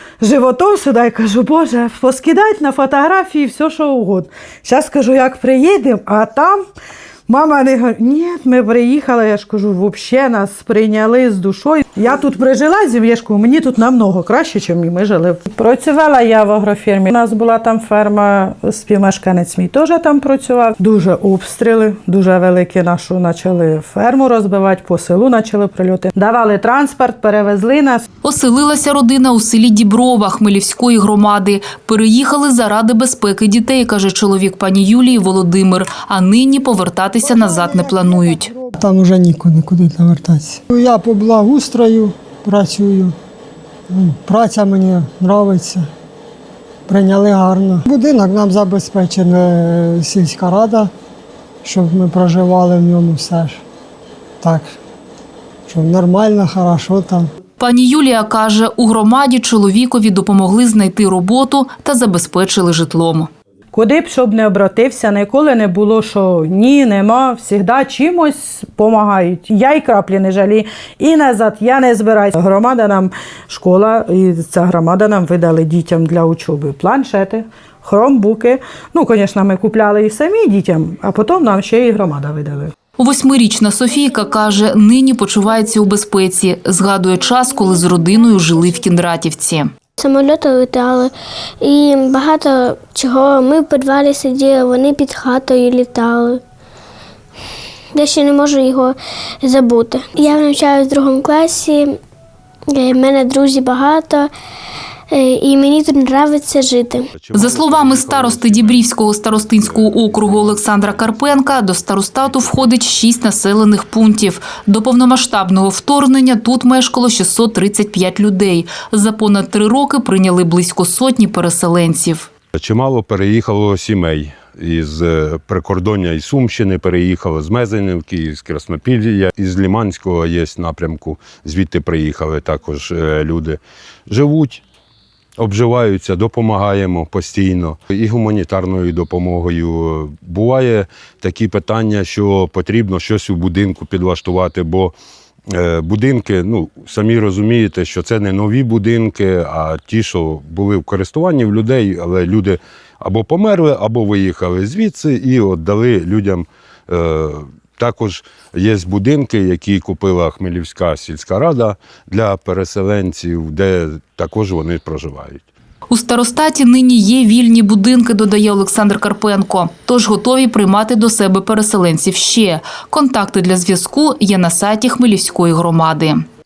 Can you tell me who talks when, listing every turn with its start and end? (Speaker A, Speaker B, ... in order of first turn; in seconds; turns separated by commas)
Speaker A: 0.2-6.6, Speaker A: 7.3-28.0, Speaker B: 28.2-38.5, Speaker A: 37.2-38.7, Speaker C: 38.7-43.1, Speaker C: 43.9-45.9, Speaker C: 46.9-50.9, Speaker C: 51.6-53.6, Speaker C: 54.4-54.8, Speaker C: 55.7-57.3, Speaker B: 57.6-63.3, Speaker A: 63.7-82.7, Speaker B: 83.0-89.7, Speaker D: 90.0-96.4, Speaker D: 97.9-102.0, Speaker D: 102.7-104.3, Speaker D: 105.1-107.1, Speaker E: 107.2-112.7, Speaker B: 107.3-122.3, Speaker E: 122.5-134.6, Speaker E: 135.4-144.9, Speaker E: 145.5-165.5, Speaker B: 165.9-176.2